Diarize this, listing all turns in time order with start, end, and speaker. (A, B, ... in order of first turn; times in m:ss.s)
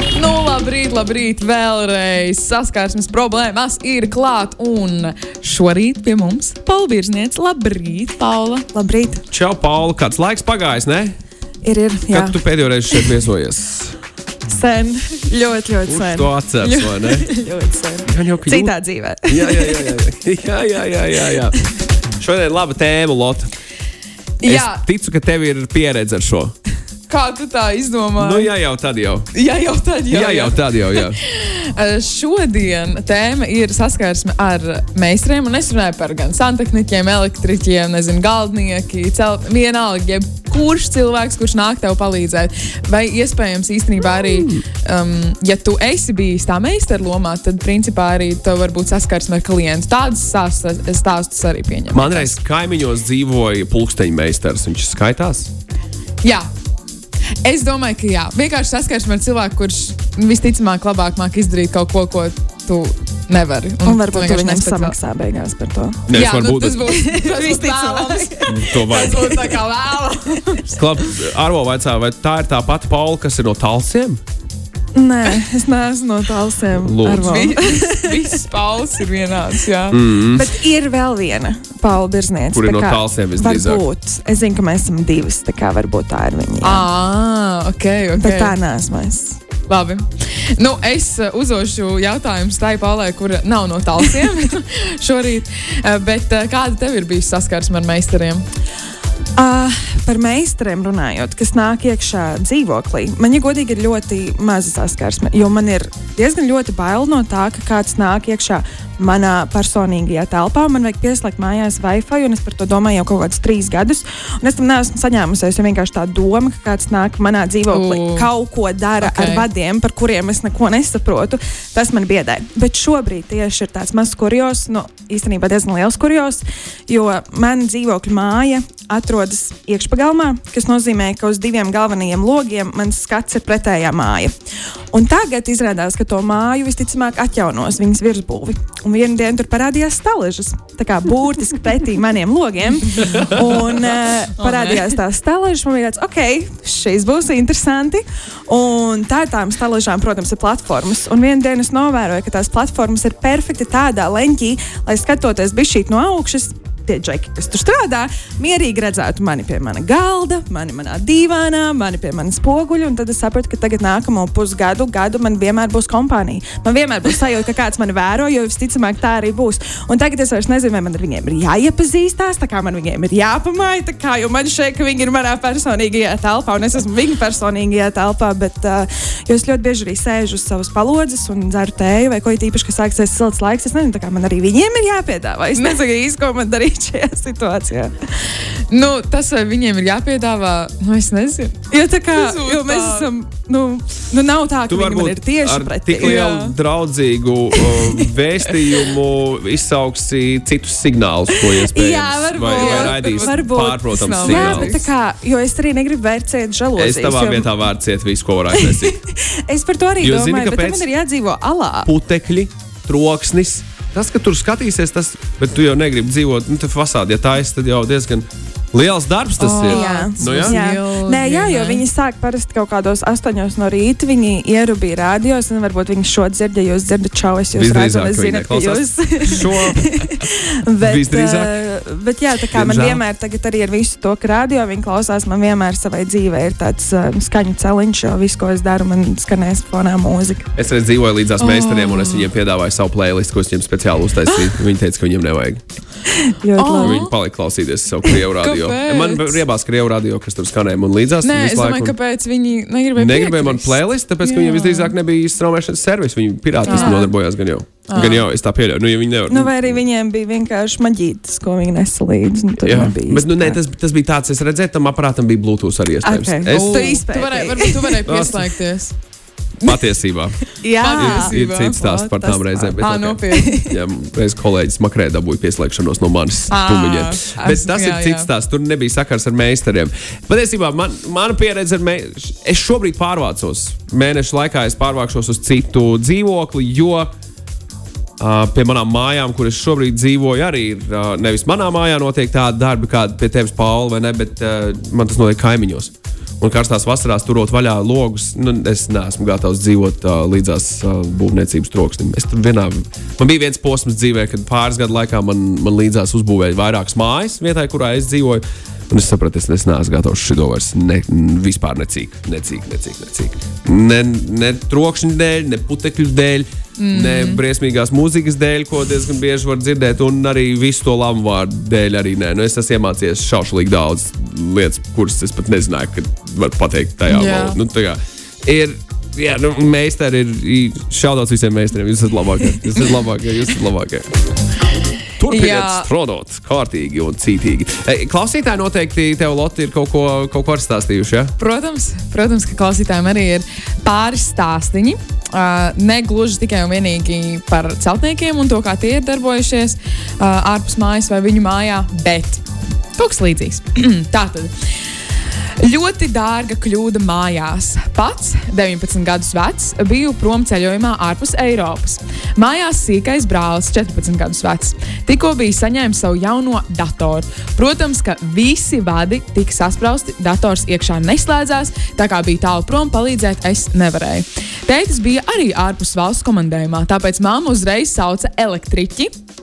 0:00.1-0:08.7 A
0:08.7-0:09.2 B
0:09.3-0:11.2 C
0:11.6-0:12.4 B
0:12.1-0:14.0 C
0:12.9-0:13.2 B
0:14.5-0:20.0 B
0:15.9-0:17.3 C
0:18.1-0:18.7 C
0:19.3-0:21.6 C
0:22.2-0:23.5 C
0:24.4-0:24.8 A
0:24.4-0:26.6 C
0:27.1-0:28.5 A
0:28.2-0:29.3 C
0:29.3-0:52.4 A
0:30.1-0:31.2 C
0:44.1-0:44.6 C
0:51.9-0:55.5 C
0:56.2-0:56.5 A
0:57.4-1:05.0 A
1:03.8-1:06.1 B
1:06.1-1:07.0 C
1:06.1-1:10.8 A
1:06.8-1:09.4 B
1:08.5-1:09.4 C
1:10.7-1:14.2 C
1:15.0-1:18.4 B
1:16.8-1:17.4 C
1:17.2-1:20.0 A
1:19.9-1:20.5 C
1:20.3-1:26.8 B
1:22.5-1:23.8 C
1:26.6-1:28.6 A
1:28.2-1:29.4 B
1:29.7-1:38.4 A
1:39.4-2:14.4 B
1:57.7-1:58.3 A
1:59.0-1:59.5 A
2:14.9-3:07.9 B
2:24.4-2:24.9 A
3:08.5-3:11.6 A
3:11.7-3:16.4 B
3:12.1-3:13.1 A
3:14.7-3:24.8 C
3:16.0-3:16.5 A
3:17.6-3:18.0 B
3:21.3-3:27.5 B
3:22.4-3:24.8 A
3:26.8-3:29.0 C
3:28.5-3:31.9 B
3:30.0-3:30.8 C
3:31.8-3:40.6 C
3:39.4-3:41.8 A
3:39.6-4:00.5 B
3:47.5-3:50.2 C
3:50.8-3:51.6 C
3:52.5-3:53.0 C
4:00.6-4:05.6 C
4:01.4-4:02.3 A
4:06.1-4:07.1 B
4:06.6-4:07.1 A
4:06.8-4:11.9 C
4:08.4-4:09.4 A
4:11.2-4:14.9 A
4:13.0-4:19.8 C
4:16.7-4:17.1 B
4:16.7-4:17.1 A
4:17.9-4:18.3 A
4:19.3-4:23.6 B
4:22.6-4:27.0 C
4:26.0-4:28.0 B
4:26.5-4:29.0 A
4:28.1-4:28.5 C
4:29.6-4:47.1 C
4:30.6-4:32.8 B
4:30.8-4:31.8 A
4:32.8-4:33.6 A
4:33.3-4:33.8 B
4:36.5-4:38.3 A
4:48.2-5:34.1 C
5:16.8-5:17.4 A
5:27.1-5:27.6 A
5:35.2-5:41.3 C
5:35.3-5:35.9 A
5:41.4-5:52.4 A
5:53.0-5:54.6 A
5:55.6-6:19.1 A